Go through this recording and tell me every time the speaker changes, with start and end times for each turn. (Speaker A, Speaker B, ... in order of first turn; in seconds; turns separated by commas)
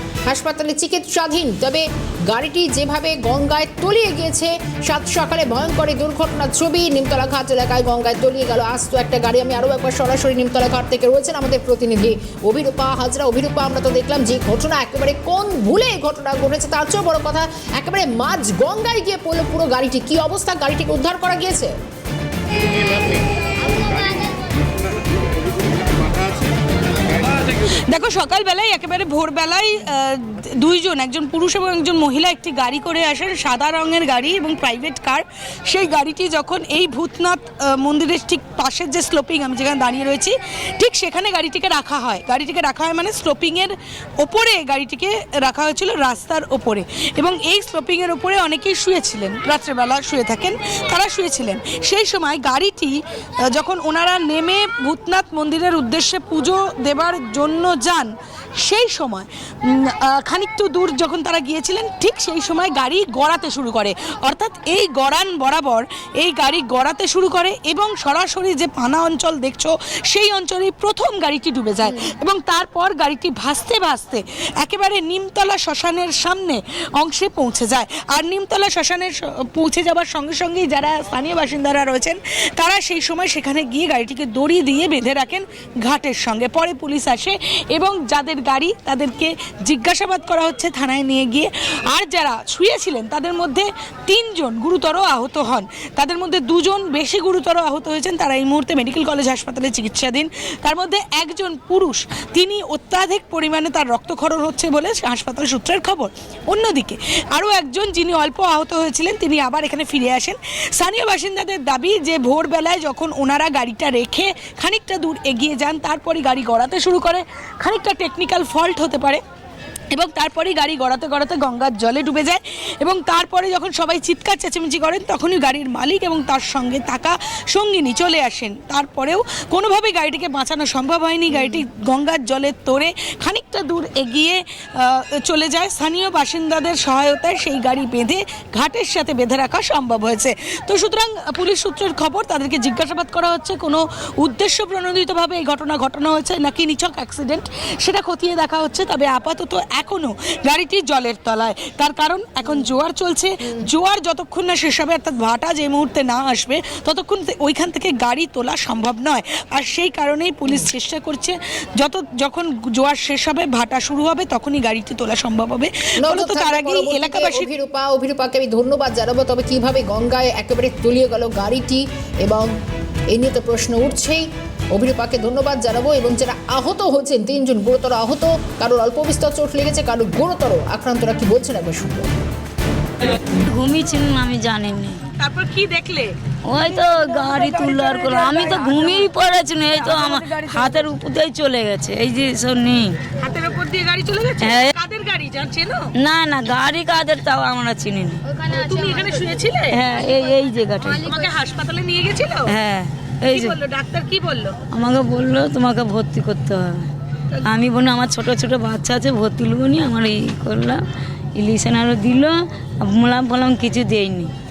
Speaker A: 0.2-21.7, Speaker B: 27.6-119.2, Speaker B: 119.9-167.5, Speaker A: 131.3-131.6, Speaker A: 166.0-172.5, Speaker A: 173.1-182.1, Speaker C: 183.5-185.0, Speaker B: 185.1-190.9, Speaker C: 186.5-193.0, Speaker B: 193.2-195.9, Speaker C: 194.4-194.7, Speaker C: 195.9-198.4, Speaker B: 198.5-199.8, Speaker C: 199.7-201.1, Speaker B: 201.0-202.5, Speaker C: 202.5-203.6, Speaker B: 203.2-204.6, Speaker C: 204.7-206.9, Speaker C: 207.4-210.8, Speaker C: 211.3-214.3